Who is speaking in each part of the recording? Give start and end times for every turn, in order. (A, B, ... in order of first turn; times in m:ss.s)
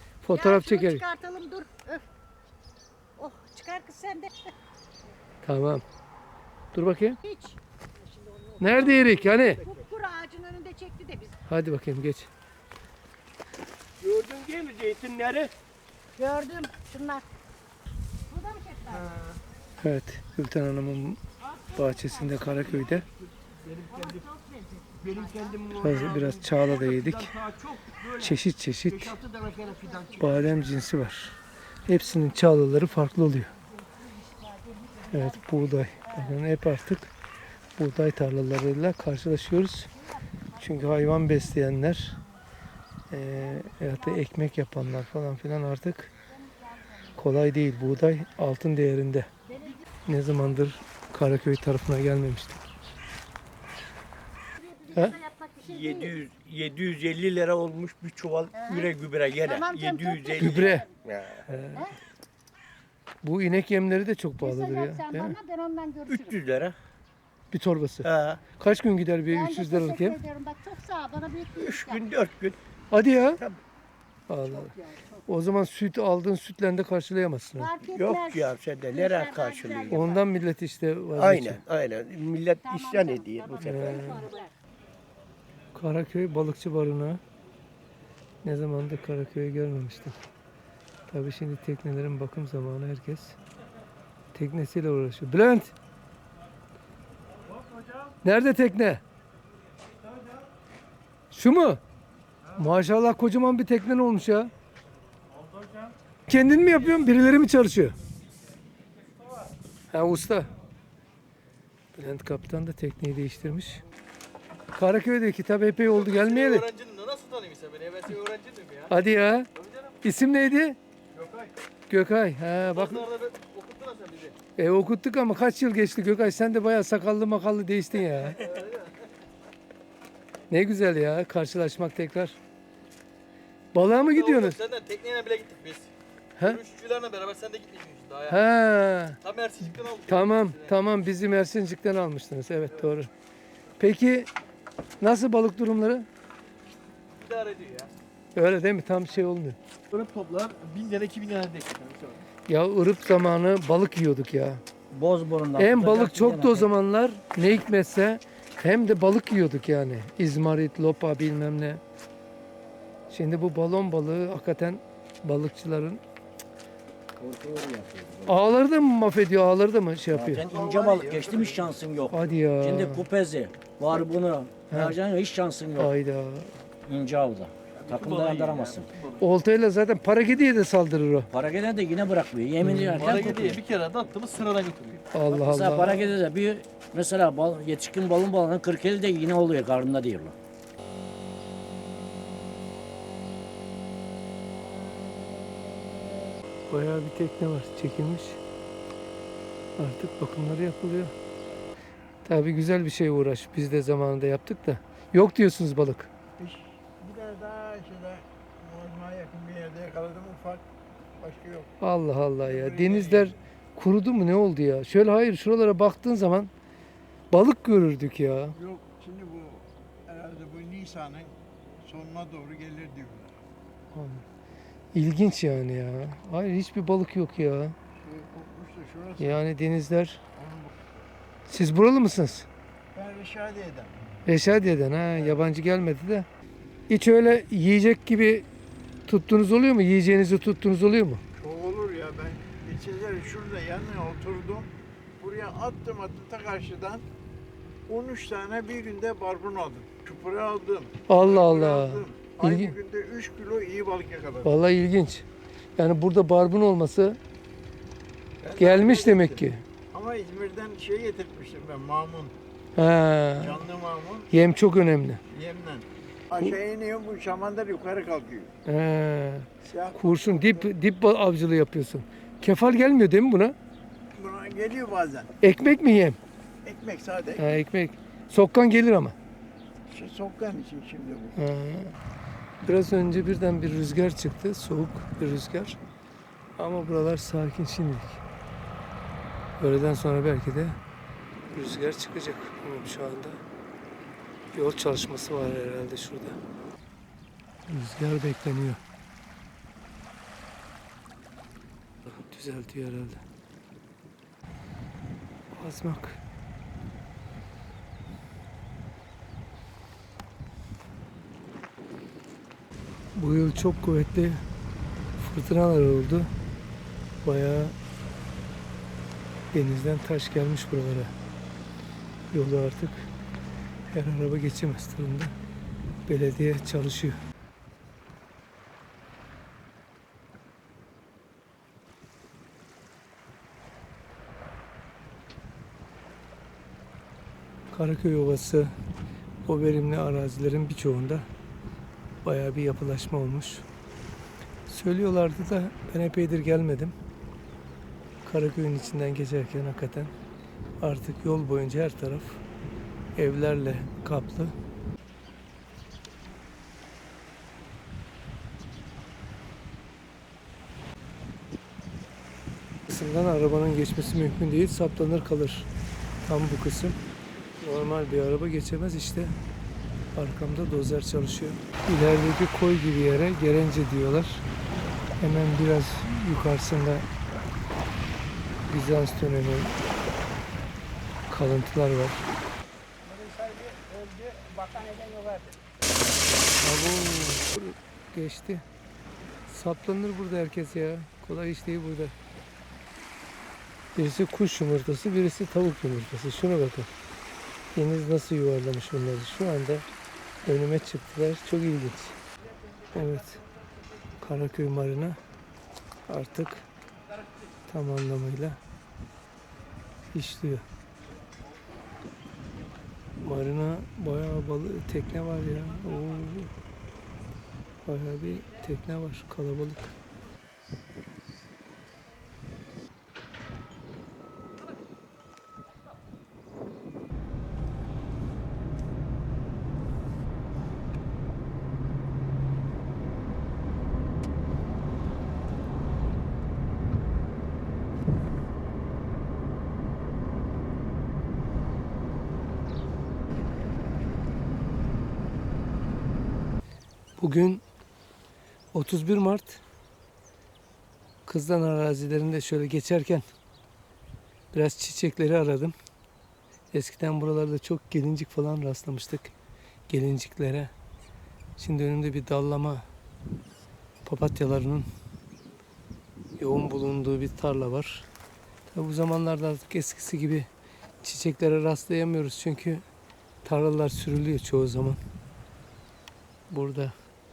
0:00.2-0:01.0 A
0:00.3-0:02.1 B
0:03.2-0:04.3 B
0:05.4-0:05.8 A
0:06.7-0:07.2 A
0:07.2-0:11.4 B
0:08.6-0:09.6 A
0:11.5-0:12.3 A
0:14.0-0:15.5 C
0:16.2-0:17.3 B
0:18.3-0:19.1 B
0:19.8-0:21.2 A
0:21.4-0:22.8 B
0:21.8-0:23.1 A
0:23.7-0:25.8 B
0:25.1-0:25.9 C
0:25.8-0:27.3 A
0:28.2-0:29.2 A
0:29.5-0:30.1 B
0:30.1-0:33.5 A
0:34.0-0:35.4 B
0:35.1-0:37.1 A
0:36.1-0:36.3 B
0:37.8-0:39.9 A
0:40.6-0:42.2 A
0:43.1-0:46.1 A
0:43.4-0:44.2 B
0:46.4-0:47.2 B
0:47.2-0:49.3 A
0:49.5-0:49.8 B
0:50.1-0:52.6 A
0:54.6-0:56.2 B
0:55.6-1:01.4 C
0:58.5-1:00.9 B
1:00.4-1:00.9 A
1:01.5-1:01.9 A
1:03.2-1:05.4 A
1:04.4-1:06.4 B
1:06.1-1:06.8 C
1:07.5-1:10.2 A
1:08.0-1:08.4 C
1:09.3-1:12.1 B
1:11.6-1:12.6 C
1:12.9-1:13.4 A
1:14.3-1:17.7 A
1:17.6-1:20.3 B
1:18.0-1:20.0 C
1:19.9-1:21.6 A
1:21.1-1:24.2 C
1:22.6-1:24.5 B
1:23.6-1:24.2 A
1:25.7-1:27.2 A
1:28.4-1:30.2 A
1:31.1-1:33.4 A
1:34.3-1:35.7 A
1:38.2-1:39.0 A
1:41.3-1:41.8 A
1:42.6-1:44.5 A
1:46.3-1:48.0 A
1:49.9-1:50.5 A
1:52.0-1:53.8 A
1:54.7-1:56.7 A
1:55.9-1:58.9 D
1:58.9-1:59.5 A
1:59.6-2:00.0 D
2:00.0-2:00.8 A
2:01.2-2:01.5 D
2:01.9-2:03.0 A
2:02.6-2:04.4 D
2:04.6-2:08.4 A
2:10.5-2:12.4 A
2:13.7-2:14.6 A
2:13.9-2:15.9 D
2:16.4-2:18.4 D
2:18.3-2:19.2 A
2:19.2-2:20.7 D
2:20.0-2:23.1 A
2:23.8-2:24.3 A
2:25.0-2:26.1 A
2:27.2-2:27.9 D
2:28.4-2:29.6 A
2:29.9-2:32.2 D
2:32.5-2:34.6 A
2:34.9-2:36.7 E
2:35.6-2:41.8 A
2:43.1-2:46.0 A
2:47.2-2:48.4 E
2:48.3-2:50.5 A
2:50.1-2:55.9 E
2:50.4-2:51.8 F
2:52.1-2:53.0 A
2:54.7-2:55.0 A
2:55.8-2:56.6 A
2:56.9-2:58.9 E
2:57.8-2:59.2 D
2:59.2-3:01.3 A
3:01.3-3:03.6 E
3:02.6-3:03.1 A
3:03.0-3:05.1 D
3:05.1-3:06.1 A
3:05.4-3:10.4 E
3:16.7-3:18.4 A
3:19.8-3:21.1 A
3:22.2-3:26.1 A
3:26.4-3:30.6 F
3:31.2-3:31.7 F
3:31.8-3:36.5 A
3:32.4-3:33.4 F
3:37.3-3:38.6 A
3:38.5-3:43.4 F
3:43.9-3:44.2 A
3:44.9-3:47.8 A
3:48.0-3:49.4 F
3:49.2-3:50.2 A
3:50.4-3:50.8 F
3:51.5-3:52.5 A
3:52.9-3:54.0 F
3:54.3-3:56.3 A
3:56.9-3:58.5 A
3:59.1-4:01.2 A
4:01.4-4:07.1 F
4:07.9-4:14.6 F
4:11.1-4:12.8 A
4:14.4-4:15.2 A
4:15.8-4:17.2 A
4:18.4-4:22.3 F
4:18.6-4:19.6 A
4:22.8-4:23.7 A
4:23.4-4:24.3 F
4:24.3-4:25.2 A
4:25.3-4:28.5 F
4:28.7-4:33.6 A
4:29.6-4:30.7 F
4:34.1-4:35.3 F
4:35.4-4:36.2 A
4:36.6-4:37.4 F
4:37.4-4:39.2 A
4:39.9-4:41.4 F
4:41.4-4:42.0 A
4:42.6-4:45.8 A
4:46.6-4:48.2 A
4:49.6-4:50.8 A
4:51.5-4:53.4 A
4:54.5-4:56.4 A
4:57.7-4:58.8 A
5:02.1-5:03.2 A
5:05.5-5:06.2 A
5:13.2-5:14.4 A
5:15.2-5:16.3 A
5:17.2-5:17.8 A
5:19.5-5:21.1 A
5:22.3-5:23.1 A
5:23.9-5:25.3 A
5:26.1-5:27.2 A
5:37.7-5:38.7 A
5:39.4-5:41.3 A
5:42.2-5:43.6 A
5:44.7-5:46.9 A
5:48.2-5:50.1 A
5:50.8-5:52.4 A
5:53.2-5:54.5 A
6:02.9-6:05.7 A
6:06.3-6:07.0 A
6:07.6-6:09.4 A
6:10.2-6:14.4 A
6:15.2-6:17.1 A
6:18.7-6:19.8 A
6:21.3-6:22.3 A
6:23.1-6:25.5 F
6:26.6-6:28.6 A
6:29.5-6:32.1 A
6:34.0-6:36.9 A
6:37.7-6:39.8 A
6:40.4-6:42.2 A
6:42.9-6:43.4 A
6:44.2-6:45.2 A
6:46.1-6:46.7 A
6:47.7-6:48.6 A
6:50.1-6:50.6 A
6:53.2-6:56.5 A
6:57.9-6:59.9 A
7:27.2-7:27.6 A
7:28.7-7:29.6 A
7:31.3-7:33.2 A
7:34.5-7:35.8 A
7:36.7-7:39.3 A
7:39.9-7:40.7 A
7:41.6-7:42.8 A
7:44.0-7:44.9 A
7:46.4-7:48.1 A
7:48.7-7:50.5 A
7:51.0-7:52.8 A
7:53.4-7:55.0 A
7:56.5-7:56.9 A